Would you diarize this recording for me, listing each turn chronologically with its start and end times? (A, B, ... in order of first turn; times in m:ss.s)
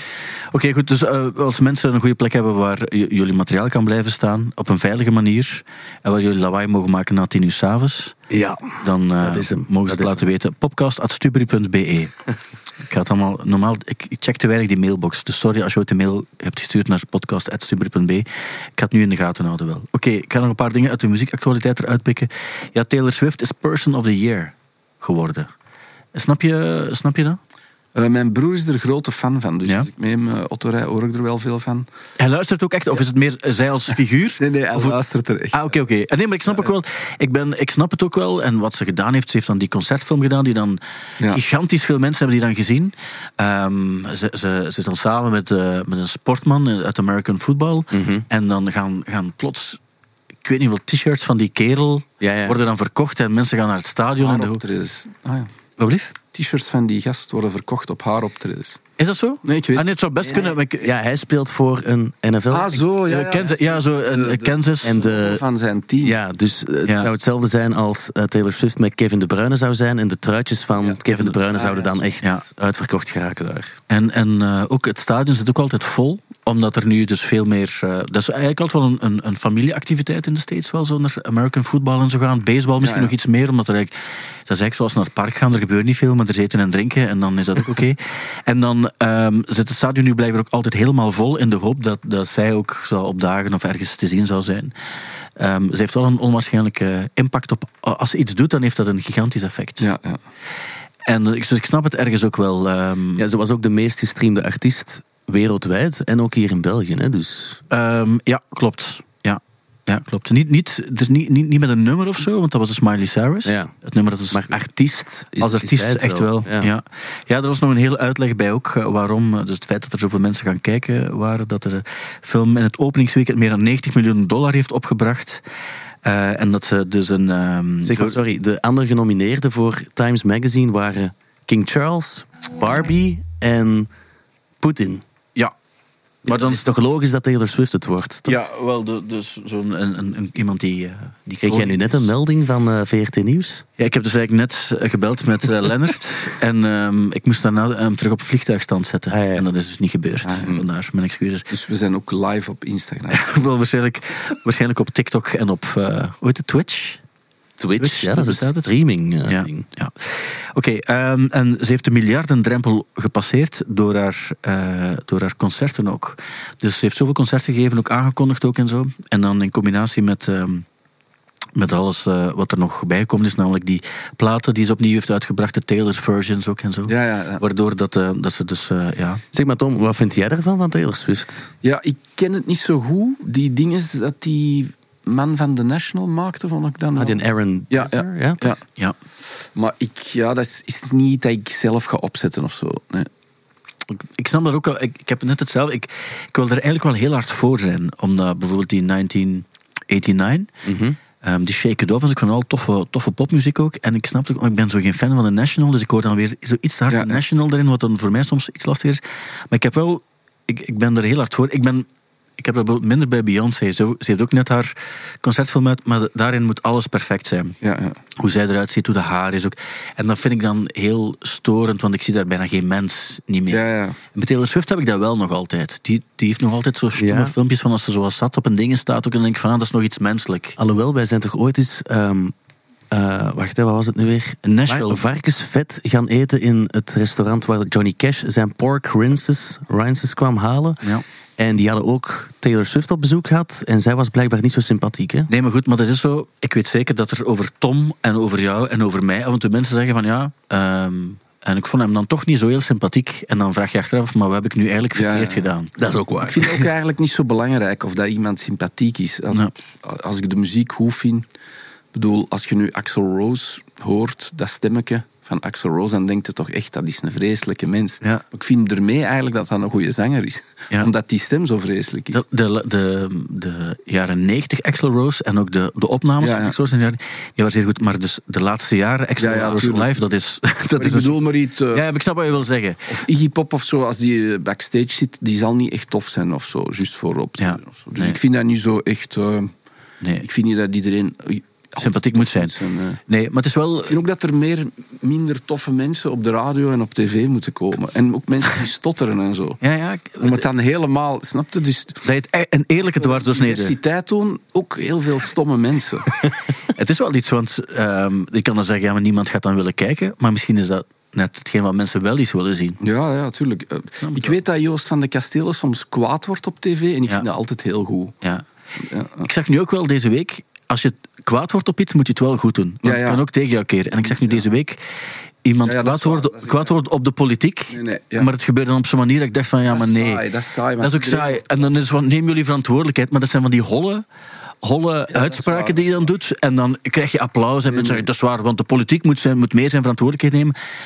0:00.5-0:08.2 A
0:08.3-0:10.3 B
0:08.8-0:12.2 A
0:12.9-0:25.5 A
0:26.1-0:27.4 A
0:27.9-0:31.9 C
0:32.2-0:35.0 A
0:34.4-0:35.8 C
0:35.5-0:49.8 A
0:47.9-0:48.2 B
0:50.4-0:54.6 A
0:52.2-0:52.6 B
0:54.2-0:55.5 C
0:55.8-0:56.1 A
0:56.3-0:58.8 C
0:59.0-1:00.9 A
0:59.4-0:59.8 C
1:00.2-1:02.8 B
1:02.5-1:06.2 C
1:03.1-1:05.0 A
1:04.8-1:05.4 B
1:06.0-1:13.8 B
1:06.8-1:07.1 A
1:10.8-1:12.1 C
1:13.9-1:23.9 A
1:22.8-1:23.1 C
1:24.5-1:34.7 A
1:35.4-1:39.9 A
1:39.8-1:40.2 C
1:41.0-1:43.2 A
1:43.2-1:47.6 B
1:47.7-1:54.6 A
1:53.4-1:53.7 B
1:54.3-1:56.7 B
1:55.4-2:05.4 A
2:06.0-2:08.2 A
2:07.8-2:13.9 B
2:14.6-2:15.0 B
2:16.2-2:18.4 B
2:16.2-2:16.6 A
2:18.2-2:22.1 A
2:21.4-2:23.6 B
2:23.8-2:31.5 A
2:29.1-2:29.4 B
2:30.2-2:30.5 C
2:31.5-2:33.2 C
2:33.1-2:37.0 A
2:37.6-2:39.6 B
2:37.8-2:38.7 A
2:39.2-2:50.6 A
2:51.5-2:59.2 A
2:56.9-2:57.4 C
2:59.3-3:01.5 B
3:01.6-3:08.6 C
3:07.0-3:08.5 B
3:09.2-3:13.1 C
3:14.0-3:20.5 A
3:20.6-3:21.0 B
3:21.2-3:31.8 A
3:26.9-3:27.2 C
3:32.4-3:37.6 A
3:37.6-3:38.0 C
3:38.2-3:43.6 A
3:43.5-3:44.0 C
3:44.1-3:50.6 A
3:47.0-3:47.3 B
3:50.6-3:52.3 B
3:52.9-4:05.3 B
3:54.4-3:55.0 A
4:05.3-4:15.7 A
4:14.9-4:15.5 C
4:15.8-4:16.6 B
4:16.2-4:21.2 C
4:21.9-4:32.2 C
4:32.1-4:41.2 A
4:36.2-4:36.5 C
4:39.2-4:40.0 C
4:40.7-4:41.8 C
4:41.7-4:42.9 A
4:42.9-4:49.5 C
4:47.4-4:48.2 A
4:50.2-4:53.0 C
4:51.8-4:52.5 A
4:53.1-4:54.0 A
4:53.9-4:59.6 C
4:59.6-5:00.4 A
5:00.2-5:02.0 C
5:02.0-5:03.8 A
5:02.8-5:06.1 C
5:06.7-5:12.8 A
5:12.8-5:18.1 C
5:14.0-5:14.4 A
5:18.8-5:19.3 C
5:19.2-5:24.8 A
5:22.8-5:23.2 C
5:23.9-5:24.4 C
5:25.4-5:30.2 A
5:25.6-5:26.8 C
5:27.7-5:28.3 C
5:29.7-5:31.7 C
5:30.8-5:34.0 A
5:34.6-5:40.5 A
5:35.1-5:36.1 C
5:37.7-5:38.1 C